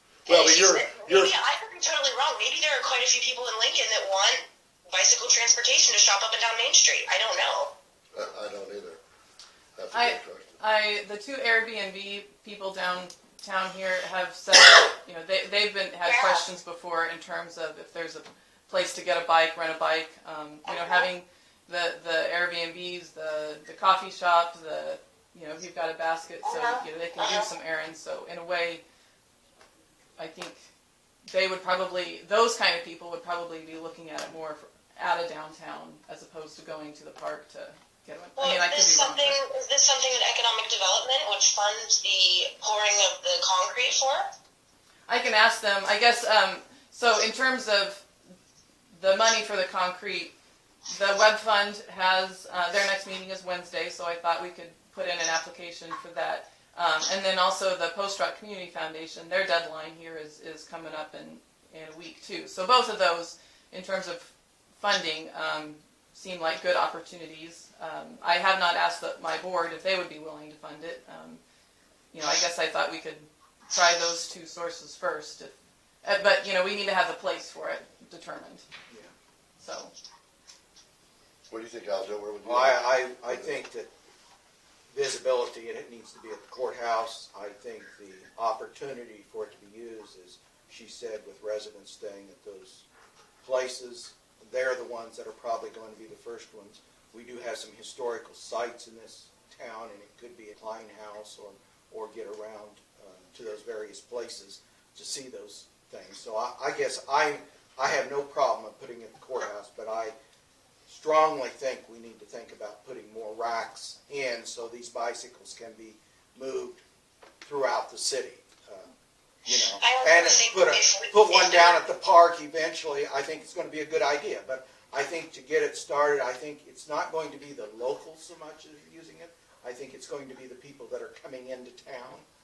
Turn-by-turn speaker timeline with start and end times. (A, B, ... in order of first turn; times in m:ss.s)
0:00.3-0:01.3 A
0:00.3-0:07.7 B
0:08.1-0:09.0 A
0:09.8-0:10.5 A
0:09.9-0:28.8 C
0:16.0-0:16.5 B
0:26.4-0:27.5 B
0:30.2-0:30.6 C
0:31.3-0:39.4 C
0:38.4-0:44.3 B
0:45.1-0:48.0 C
0:49.0-0:50.3 C
0:50.9-1:04.3 C
1:04.8-1:11.4 C
1:12.1-1:15.5 C
1:16.0-1:18.6 C
1:19.6-1:19.9 C
1:21.5-1:23.6 A
1:22.4-1:23.9 D
1:24.9-1:32.8 D
1:33.4-1:50.2 D
1:50.9-1:56.8 D
1:57.4-1:58.9 D
1:59.5-2:12.3 D
1:59.8-2:01.8 B